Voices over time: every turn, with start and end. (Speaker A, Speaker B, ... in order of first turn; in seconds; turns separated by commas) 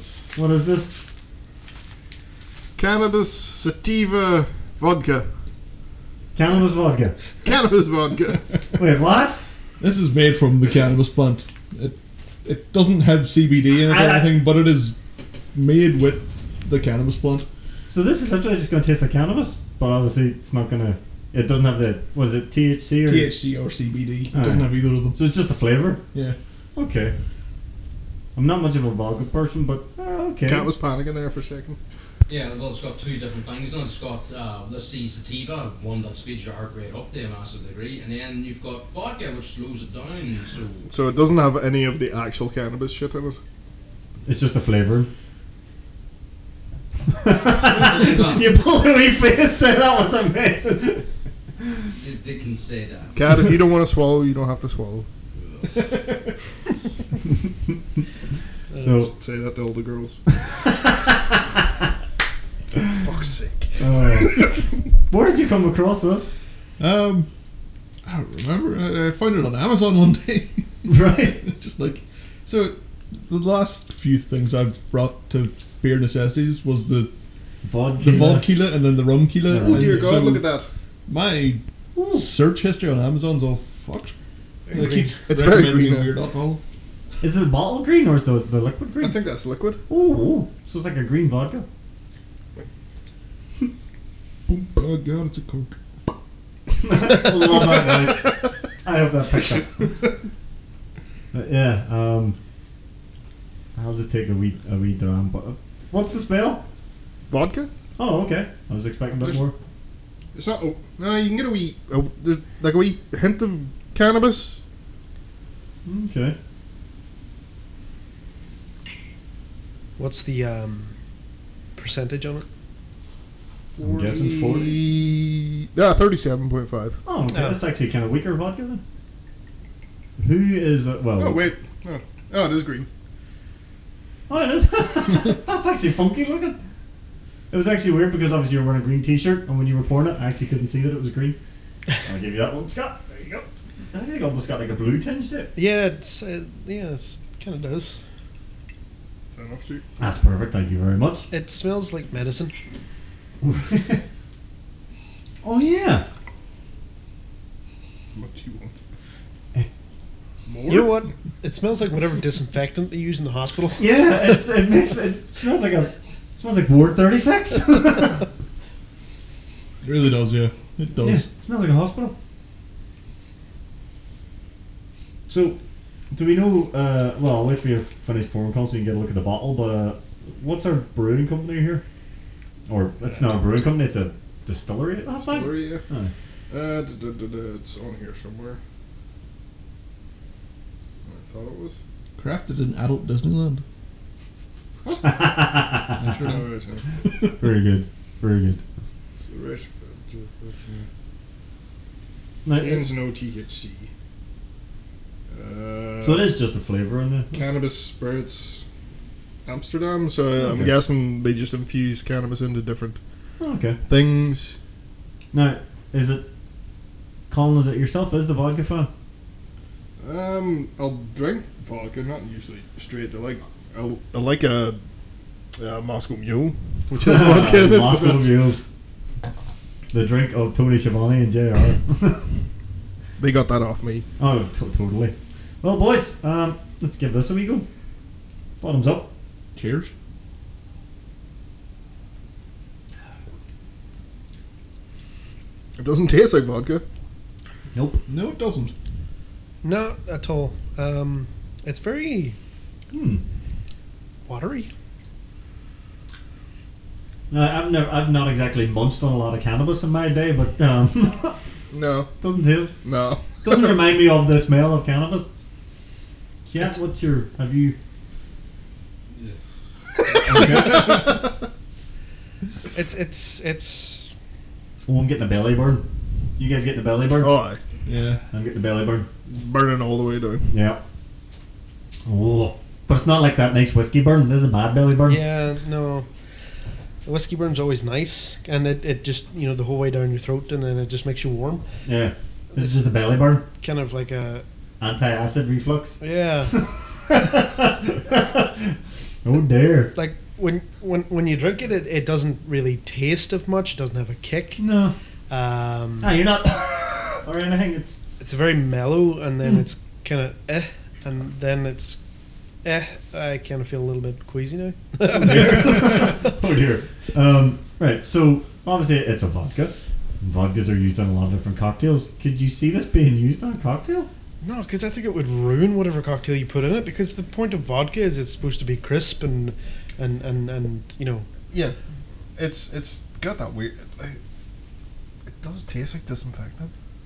Speaker A: 0.3-1.0, Speaker B: 2.8-5.3, Speaker A: 6.3-7.2, Speaker B: 7.4-8.5, Speaker A: 8.8-9.4, Speaker C: 9.8-15.0, Speaker A: 13.8-14.4, Speaker C: 15.5-17.5, Speaker A: 17.9-23.3, Speaker C: 23.1-25.2, Speaker A: 24.3-26.0, Speaker A: 26.8-27.1, Speaker A: 28.4-30.7, Speaker B: 30.5-31.8, Speaker D: 32.3-40.9, Speaker B: 40.9-43.4, Speaker A: 44.3-45.1, Speaker A: 47.1-51.1, Speaker D: 47.5-48.5, Speaker A: 51.6-51.9, Speaker D: 52.0-53.2, Speaker B: 53.1-55.1, Speaker C: 55.7-56.3, Speaker A: 57.4-57.8, Speaker B: 58.8-60.2, Speaker A: 58.8-59.1, Speaker A: 60.4-61.6, Speaker B: 62.9-64.7, Speaker A: 63.8-64.5, Speaker A: 65.1-66.3, Speaker C: 66.8-67.3, Speaker C: 68.1-77.1, Speaker A: 70.9-71.4, Speaker A: 77.6-78.5, Speaker C: 78.0-80.5, Speaker A: 79.5-80.2, Speaker B: 79.6-80.7, Speaker C: 81.1-84.1, Speaker A: 82.0-82.3, Speaker E: 84.7-85.2, Speaker C: 84.7-86.6, Speaker B: 84.8-86.1, Speaker A: 87.2-89.2, Speaker B: 89.0-89.8, Speaker A: 89.9-91.7, Speaker C: 94.5-95.8, Speaker A: 96.8-99.9, Speaker B: 97.2-98.0, Speaker A: 101.3-102.4, Speaker A: 103.8-106.6, Speaker B: 107.3-107.7, Speaker A: 108.0-109.5, Speaker B: 110.3-114.6, Speaker A: 115.8-116.4, Speaker E: 120.0-121.0, Speaker E: 121.8-122.5, Speaker B: 123.8-127.0, Speaker A: 123.8-124.9, Speaker A: 127.1-128.8, Speaker E: 127.3-127.6, Speaker A: 130.2-131.4, Speaker B: 131.2-132.9, Speaker A: 134.3-136.6, Speaker A: 137.5-141.4, Speaker A: 142.0-145.5, Speaker E: 145.6-148.0, Speaker B: 149.3-149.8, Speaker A: 150.0-151.3, Speaker E: 151.3-152.5, Speaker A: 153.4-154.0, Speaker A: 155.4-156.1, Speaker B: 158.2-158.7, Speaker B: 160.5-161.0, Speaker E: 160.7-164.1, Speaker A: 163.8-168.3, Speaker C: 169.8-171.3, Speaker A: 171.0-172.2, Speaker A: 175.3-175.6, Speaker A: 176.1-181.8, Speaker A: 182.7-186.1, Speaker B: 185.2-185.8, Speaker B: 186.5-188.6, Speaker B: 191.1-191.8, Speaker C: 192.2-193.6, Speaker B: 194.8-195.4, Speaker A: 195.0-196.0, Speaker C: 195.9-196.5, Speaker B: 196.1-196.9, Speaker C: 197.0-197.3, Speaker A: 197.4-198.6, Speaker B: 199.2-200.9, Speaker A: 202.4-202.9, Speaker B: 202.5-203.9, Speaker B: 205.3-206.3, Speaker A: 206.0-207.5, Speaker B: 207.3-208.7, Speaker B: 209.5-213.0, Speaker A: 210.4-210.8, Speaker A: 213.4-213.8, Speaker B: 213.9-214.6, Speaker A: 215.3-216.2, Speaker A: 217.3-218.9, Speaker B: 220.0-224.8, Speaker B: 225.6-228.4, Speaker A: 226.9-228.6, Speaker A: 229.9-232.3, Speaker B: 233.2-234.1, Speaker A: 234.2-237.7, Speaker A: 238.6-239.1, Speaker C: 239.6-239.9, Speaker B: 245.8-246.8, Speaker A: 247.7-248.0, Speaker C: 248.1-248.7, Speaker E: 249.6-252.4, Speaker A: 252.9-253.2, Speaker E: 254.3-254.7, Speaker A: 257.3-261.4, Speaker B: 261.7-262.1, Speaker A: 262.2-262.8, Speaker B: 262.8-263.8, Speaker A: 263.4-265.3, Speaker A: 266.5-267.8, Speaker C: 270.1-271.1, Speaker B: 270.1-271.2, Speaker E: 272.7-274.1, Speaker A: 274.9-275.9, Speaker A: 276.4-277.3, Speaker B: 277.2-277.6, Speaker C: 277.9-278.2, Speaker A: 278.3-279.1, Speaker B: 279.3-280.6, Speaker A: 280.5-280.8, Speaker A: 282.1-285.2, Speaker E: 285.1-286.1, Speaker E: 287.1-291.6, Speaker A: 291.8-293.4, Speaker E: 292.5-292.9, Speaker E: 293.5-294.4, Speaker A: 294.8-296.0, Speaker E: 296.0-296.6, Speaker A: 296.5-299.9, Speaker E: 299.9-304.6, Speaker A: 304.6-304.9, Speaker E: 305.3-306.1, Speaker A: 306.0-308.0, Speaker E: 308.2-312.0, Speaker E: 312.6-316.3, Speaker A: 315.1-324.1, Speaker E: 324.4-331.3, Speaker B: 331.5-331.8, Speaker B: 332.4-334.2, Speaker B: 335.3-336.7